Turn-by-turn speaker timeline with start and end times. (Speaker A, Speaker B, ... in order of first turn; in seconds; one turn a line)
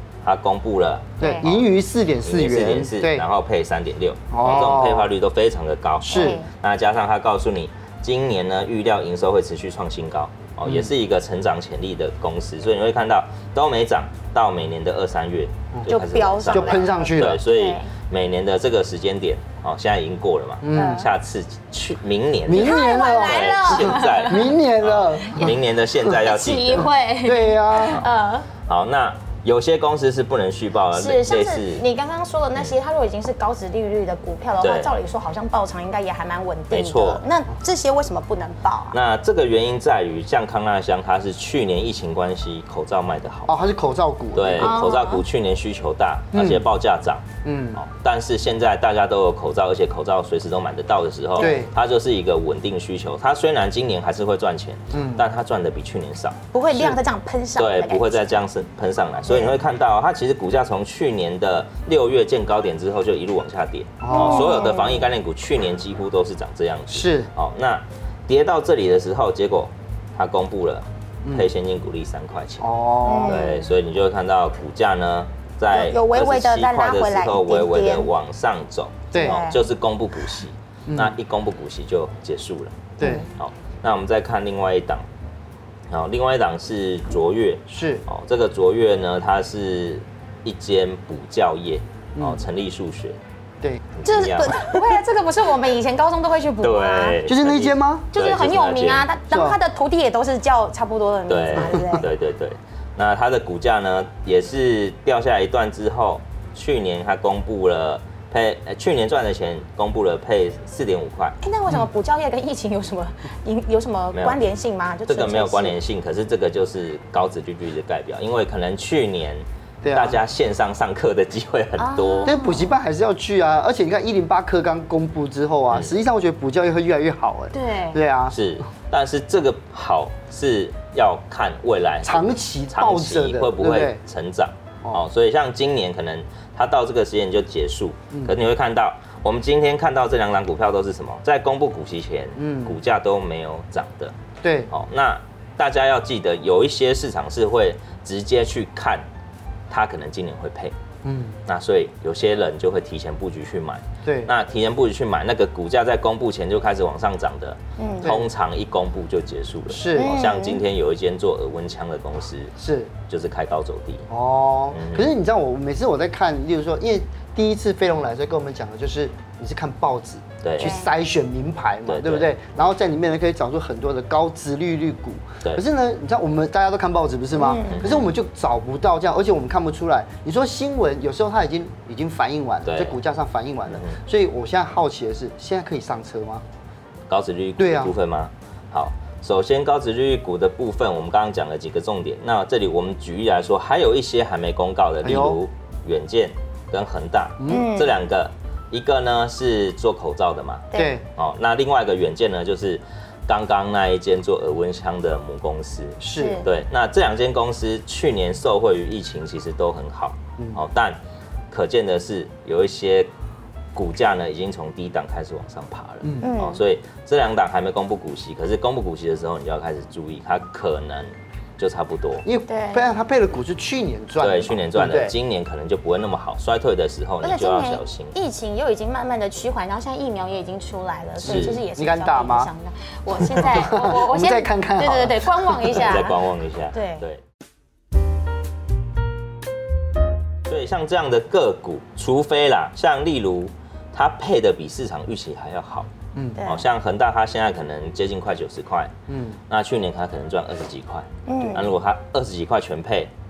Speaker A: 0.2-1.6
Speaker B: 1.2-3.3
Speaker C: 1.2-1.6
Speaker A: 2.2-26.9
Speaker B: 4.3-5.1
Speaker C: 4.4-4.7
Speaker B: 6.1-6.4
Speaker C: 6.1-6.5
Speaker B: 15.7-17.4
Speaker C: 15.9-17.9
Speaker B: 20.6-21.1
Speaker C: 20.7-21.0
Speaker B: 22.5-25.5
Speaker C: 22.5-24.5
Speaker C: 25.3-25.5
Speaker C: 26.1-28.5
Speaker B: 27.2-28.0
Speaker A: 28.6-31.8
Speaker C: 30.9-39.0
Speaker A: 34.6-34.9
Speaker A: 36.7-37.2
Speaker A: 38.9-43.6
Speaker B: 43.5-44.8
Speaker A: 44.3-56.4
Speaker C: 44.6-45.2
Speaker B: 46.3-46.7
Speaker B: 47.4-47.8
Speaker B: 51.4-51.7
Speaker B: 54.9-55.2
Speaker C: 56.5-58.2
Speaker B: 56.7-57.0
Speaker A: 57.5-72.7
Speaker C: 59.3-59.5
Speaker B: 64.0-64.6
Speaker C: 64.1-65.0
Speaker B: 66.9-67.3
Speaker B: 71.2-71.5
Speaker B: 72.6-73.5
Speaker C: 73.0-73.7
Speaker A: 73.2-85.0
Speaker C: 75.7-78.1
Speaker B: 79.1-79.4
Speaker C: 79.2-79.6
Speaker B: 80.9-81.2
Speaker B: 83.0-83.3
Speaker A: 85.9-93.2
Speaker B: 87.7-88.0
Speaker B: 92.2-92.4
Speaker A: 94.0-95.0
Speaker C: 94.0-97.2
Speaker A: 96.6-99.1
Speaker B: 97.2-98.1
Speaker C: 98.1-102.1
Speaker B: 99.3-99.6
Speaker A: 101.3-111.4
Speaker B: 101.6-102.0
Speaker C: 111.4-115.8
Speaker A: 114.1-114.5
Speaker A: 115.1-122.3
Speaker B: 119.8-120.2
Speaker C: 121.8-122.6
Speaker B: 122.2-128.4
Speaker C: 127.5-128.0
Speaker A: 128.3-144.2
Speaker B: 132.0-134.0
Speaker B: 142.3-142.8
Speaker B: 144.4-144.7
Speaker A: 144.7-149.0
Speaker A: 149.7-150.8
Speaker B: 151.0-151.4
Speaker A: 151.5-162.5
Speaker B: 154.0-154.3
Speaker C: 157.8-158.1
Speaker B: 158.0-158.3
Speaker B: 159.7-160.2
Speaker C: 159.9-160.6
Speaker B: 162.6-162.9
Speaker A: 163.1-164.1
Speaker B: 164.1-186.4
Speaker A: 164.7-165.1
Speaker A: 170.4-170.7
Speaker C: 170.6-170.9
Speaker A: 171.9-172.3
Speaker C: 177.3-177.9
Speaker A: 177.7-178.1
Speaker A: 182.7-183.0
Speaker A: 183.7-184.0
Speaker A: 187.1-213.1
Speaker B: 187.6-187.9
Speaker B: 195.0-195.4
Speaker B: 197.4-197.7
Speaker C: 197.5-197.9
Speaker C: 200.7-201.0
Speaker B: 200.7-201.0
Speaker B: 206.0-206.4
Speaker C: 206.1-206.5
Speaker A: 213.7-222.2
Speaker B: 216.0-216.3
Speaker C: 216.2-216.6
Speaker B: 222.2-225.1
Speaker C: 222.5-222.9
Speaker A: 224.2-228.2
Speaker C: 227.2-237.0
Speaker A: 231.2-231.6
Speaker B: 231.3-232.5
Speaker B: 233.4-235.9
Speaker A: 235.7-237.2
Speaker A: 240.4-245.9
Speaker B: 246.2-246.4
Speaker C: 246.4-246.7
Speaker A: 246.4-248.9
Speaker B: 249.1-249.4
Speaker A: 249.5-253.1
Speaker C: 251.3-251.7